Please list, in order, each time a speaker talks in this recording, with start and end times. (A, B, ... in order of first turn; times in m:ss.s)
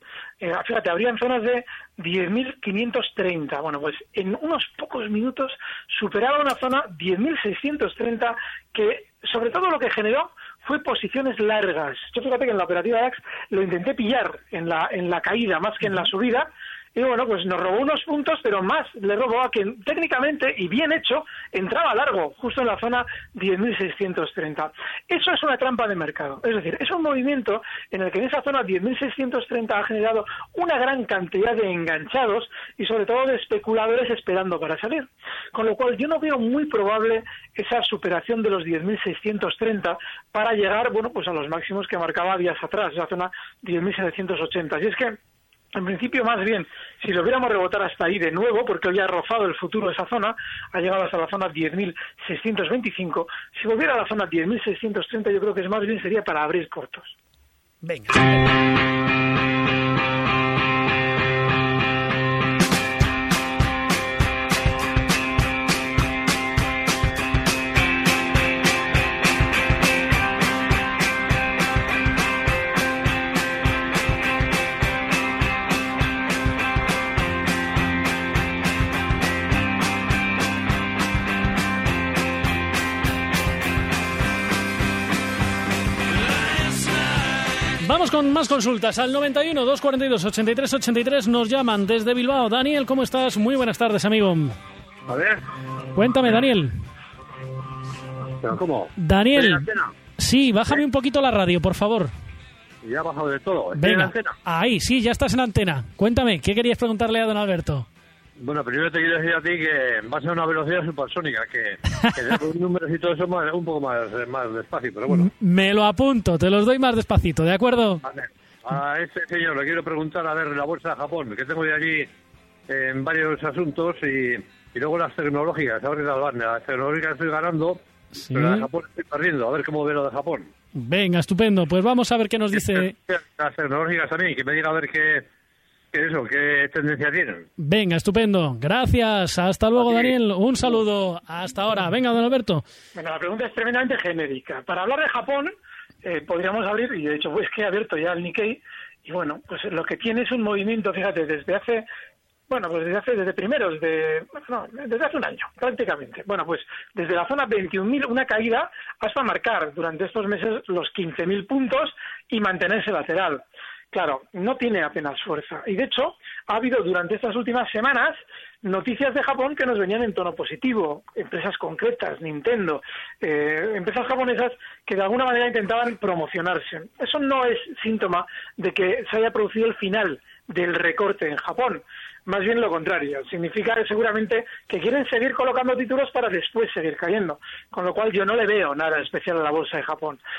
0:00.4-0:45.2 A
0:45.7-0:57.2 A
0:57.8-0:58.3 B
1:27.8-1:34.6 B
1:35.1-1:35.4 C
1:35.9-1:36.7 B
1:38.4-1:39.9 C
1:39.0-1:39.6 B
1:40.2-1:42.1 B
1:42.8-1:44.3 C
1:43.8-1:47.9 B
1:48.4-1:55.3 C
1:55.1-1:58.0 B
1:58.0-2:02.1 C
2:02.7-2:10.5 C
2:08.1-2:08.7 B
2:10.7-2:12.9 B
2:12.5-2:15.2 C
2:15.9-2:17.4 C
2:17.6-2:22.6 B
2:19.8-2:20.1 C
2:22.9-2:31.8 A
2:32.5-3:10.2 A